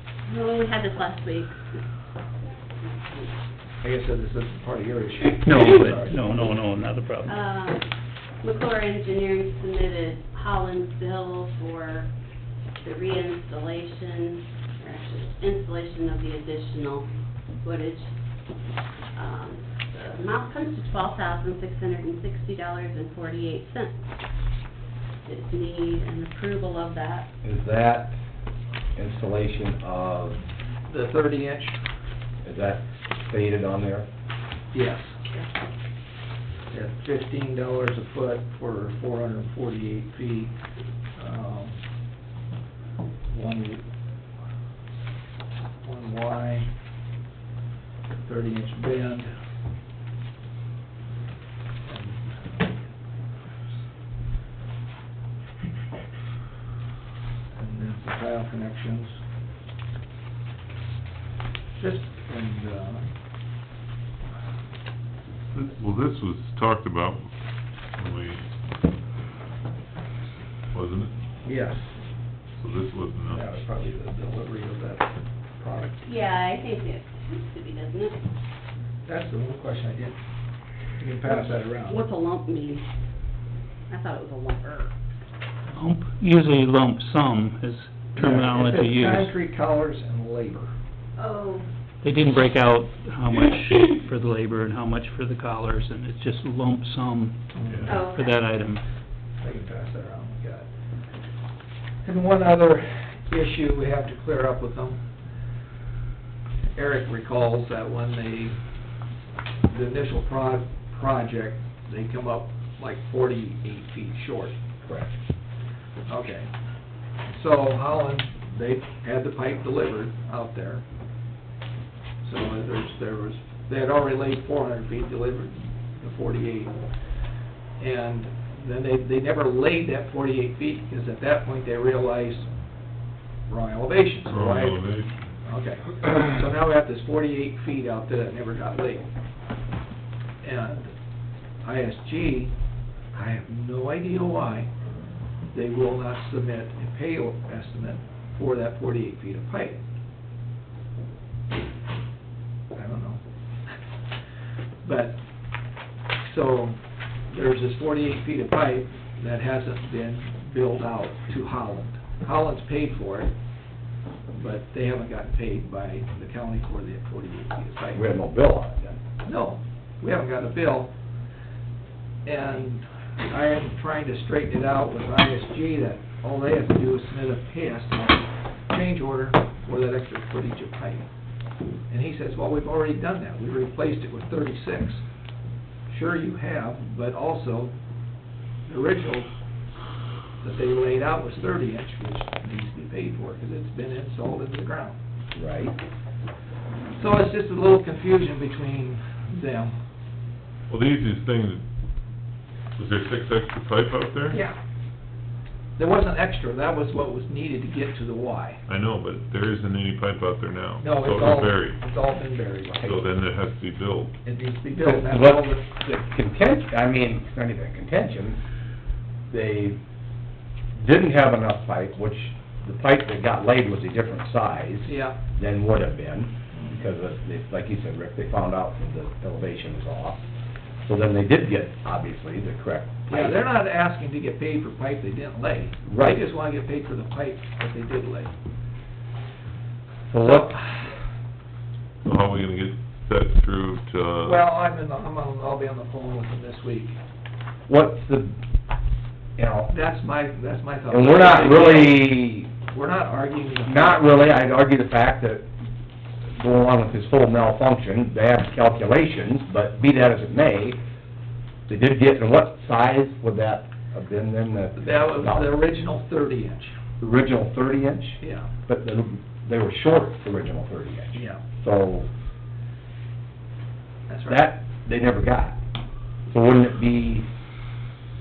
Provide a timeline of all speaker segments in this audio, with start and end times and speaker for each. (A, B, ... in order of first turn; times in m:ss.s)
0:00.3-0:01.8 A
0:02.8-0:03.3 A
0:03.8-0:06.2 B
0:05.4-0:07.4 C
0:07.3-0:07.8 A
0:08.4-0:12.1 A
0:12.8-0:17.1 A
0:17.6-0:18.1 A
0:19.2-0:24.0 A
0:25.2-0:27.3 A
0:27.4-0:28.2 D
0:29.0-0:30.4 D
0:30.9-0:31.8 B
0:32.4-0:34.1 D
0:34.7-0:35.2 B
0:36.7-0:40.5 B
0:41.2-0:41.8 B
0:43.3-0:43.8 B
0:45.8-0:46.7 B
0:48.2-0:49.3 B
0:51.9-0:53.8 B
0:57.5-0:59.1 B
1:01.8-1:03.1 B
1:05.5-1:07.3 E
1:08.0-1:08.4 E
1:10.7-1:11.1 E
1:11.4-1:11.9 B
1:12.6-1:13.6 E
1:13.3-1:16.1 B
1:16.0-1:18.2 A
1:19.1-1:20.2 B
1:21.0-1:22.0 B
1:21.3-1:22.8 A
1:23.9-1:24.9 A
1:25.8-1:29.4 C
1:28.2-1:30.7 B
1:31.2-1:31.7 A
1:32.0-1:37.4 C
1:37.5-1:38.0 B
1:37.6-1:37.9 E
1:37.9-1:38.3 A
1:38.0-1:38.8 C
1:39.4-1:40.7 B
1:42.0-1:45.0 B
1:46.8-1:48.6 B
1:49.7-1:54.6 B
1:54.8-1:55.1 D
1:56.1-1:56.5 B
1:57.3-2:00.8 B
2:02.2-2:06.8 B
2:07.8-2:12.5 B
2:13.5-2:14.8 B
2:14.3-2:15.3 E
2:15.4-2:19.1 B
2:20.4-2:20.9 B
2:21.6-2:22.5 B
2:23.1-2:24.7 B
2:25.5-2:29.8 B
2:32.7-2:33.2 B
2:34.8-2:35.2 B
2:36.2-2:36.8 B
2:37.3-2:43.3 B
2:44.3-2:48.0 B
2:47.9-2:49.0 D
2:49.2-2:50.9 B
2:52.2-3:01.1 B
3:01.9-3:05.0 B
3:05.9-3:07.7 B
3:08.7-3:09.3 B
3:10.4-3:15.0 B
3:15.4-3:15.8 D
3:17.0-3:19.8 B
3:20.7-3:21.6 E
3:22.8-3:24.4 E
3:24.3-3:24.6 B
3:25.8-3:28.6 B
3:28.7-3:31.8 E
3:30.8-3:33.0 B
3:32.8-3:34.1 E
3:34.2-3:35.6 B
3:34.8-3:38.4 D
3:39.3-3:39.8 D
3:40.8-3:50.2 D
3:44.8-3:45.2 B
3:50.8-3:53.4 D
3:53.1-3:58.3 B
3:55.8-3:56.2 D
4:00.1-4:00.6 D
4:00.2-4:00.7 B
4:02.0-4:04.4 E
4:04.2-4:07.0 B
4:07.7-4:08.3 D
4:09.4-4:09.7 D
4:09.7-4:12.1 B
4:10.9-4:12.5 D
4:12.6-4:14.2 B
4:13.6-4:15.5 D
4:16.4-4:20.8 D
4:21.7-4:25.6 D
4:24.8-4:26.8 B
4:27.0-4:32.1 D
4:28.2-4:28.5 B
4:31.1-4:31.4 B
4:34.1-4:34.4 B
4:34.3-4:35.6 D
4:36.3-4:37.3 D